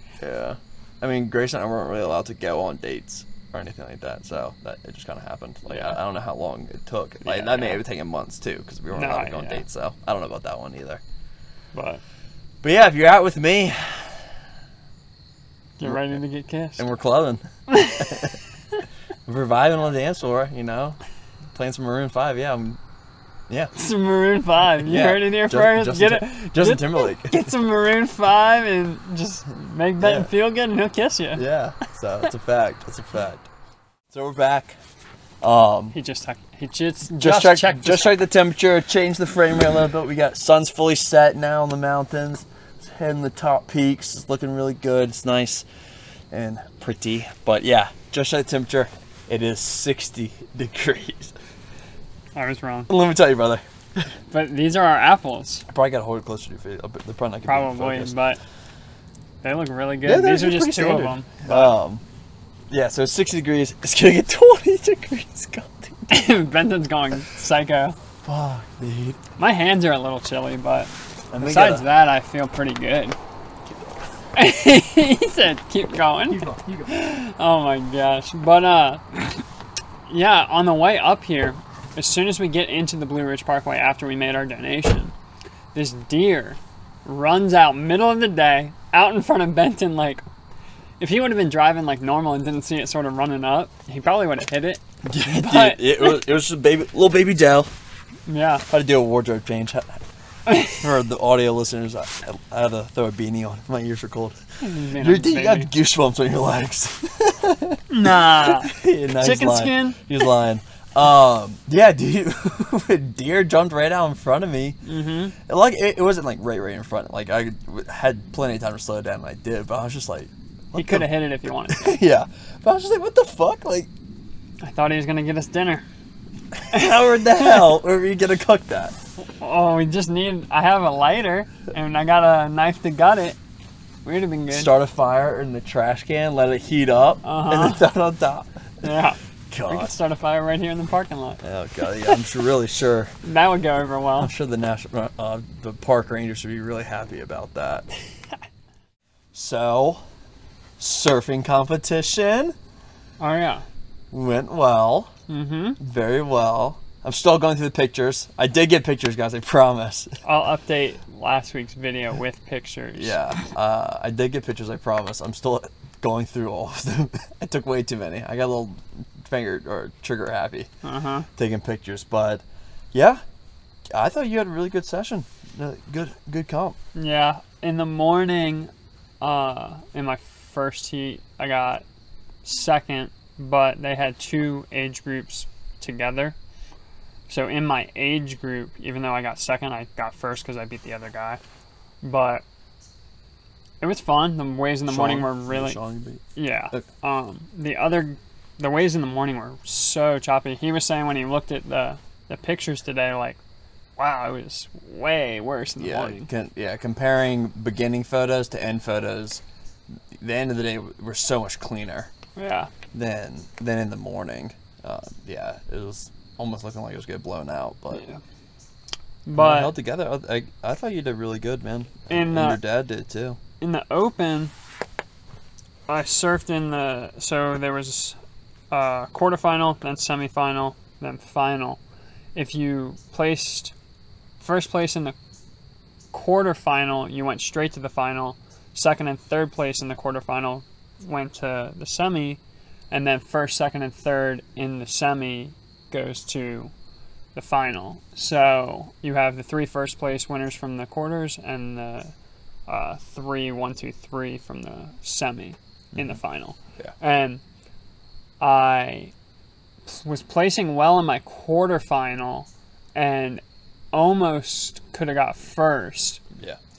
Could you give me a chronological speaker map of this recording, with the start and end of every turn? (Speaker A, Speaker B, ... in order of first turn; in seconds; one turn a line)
Speaker A: 0.2-11.0
Speaker B: 5.7-6.0
Speaker B: 7.2-7.8
Speaker B: 8.9-9.6
Speaker B: 11.7-12.0
Speaker A: 12.6-14.3
Speaker B: 15.8-16.9
Speaker A: 15.8-16.2
Speaker A: 16.8-17.4
Speaker B: 17.7-18.3
Speaker A: 18.0-18.4
Speaker A: 19.3-21.0
Speaker A: 21.5-22.8
Speaker B: 23.7-31.5
Speaker A: 24.8-27.6
Speaker A: 30.0-30.3
Speaker A: 31.4-33.5
Speaker A: 34.1-34.8
Speaker A: 35.4-36.0
Speaker B: 35.9-38.2
Speaker A: 37.2-45.6
Speaker A: 46.3-51.4
Speaker B: 52.4-52.9
Speaker A: 52.9-53.6
Speaker B: 54.3-55.7
Speaker A: 55.7-58.2
Speaker B: 57.4-58.4
Speaker B: 59.4-61.8
Speaker A: 60.0-62.0
Speaker A: 62.7-66.3
Speaker B: 66.1-68.0
Speaker A: 68.2-69.2
Speaker B: 69.4-73.2
Speaker A: 71.3-71.9
Speaker B: 74.3-79.4
Speaker A: 76.3-76.9
Speaker B: 80.1-85.1
Speaker B: 85.7-90.2
Speaker B: 91.0-96.2
Speaker A: 95.0-97.7
Speaker B: 98.3-98.7
Speaker A: 98.7-100.0
Speaker B: 100.5-100.8
Speaker A: 100.7-104.4
Speaker B: 104.6-105.7
Speaker A: 104.9-114.8
Speaker B: 107.9-110.0
Speaker B: 114.8-115.4
Speaker A: 115.4-121.1
Speaker B: 120.8-122.0
Speaker A: 121.7-123.9
Speaker B: 124.6-125.9
Speaker A: 126.6-128.9
Speaker B: 126.7-127.6
Speaker B: 129.2-133.4
Speaker B: 134.1-134.7
Speaker A: 134.5-138.8
Speaker B: 137.2-137.8
Speaker B: 138.8-139.2
Speaker A: 139.5-139.9
Speaker B: 139.7-141.4
Speaker A: 141.4-143.1
Speaker B: 143.2-144.3
Speaker A: 144.2-147.9
Speaker A: 149.3-150.0
Speaker A: 150.8-152.6
Speaker B: 153.2-153.7
Speaker A: 154.1-155.1
Speaker B: 155.3-155.8
Speaker A: 155.8-160.2
Speaker B: 160.2-163.2
Speaker A: 162.9-170.7
Speaker B: 170.8-171.3
Speaker A: 171.4-173.2
Speaker A: 173.9-176.8
Speaker B: 176.9-181.8
Speaker B: 182.4-186.4
Speaker B: 187.3-191.4
Speaker B: 192.0-192.4
Speaker B: 193.8-195.8
Speaker A: 194.9-196.8
Speaker B: 196.3-203.4
Speaker B: 204.0-206.3
Speaker A: 205.8-209.4
Speaker A: 210.1-212.1
Speaker B: 212.4-212.7
Speaker A: 212.9-218.0
Speaker B: 217.9-218.2
Speaker B: 219.2-219.7
Speaker A: 219.4-223.4
Speaker B: 222.1-222.6
Speaker B: 223.6-224.5
Speaker B: 225.9-228.2
Speaker B: 228.7-231.8
Speaker B: 232.3-233.7
Speaker B: 234.4-235.2
Speaker B: 236.1-246.7
Speaker B: 247.3-252.1
Speaker B: 252.7-257.4
Speaker B: 258.4-259.1
Speaker B: 259.9-263.4
Speaker B: 263.9-266.2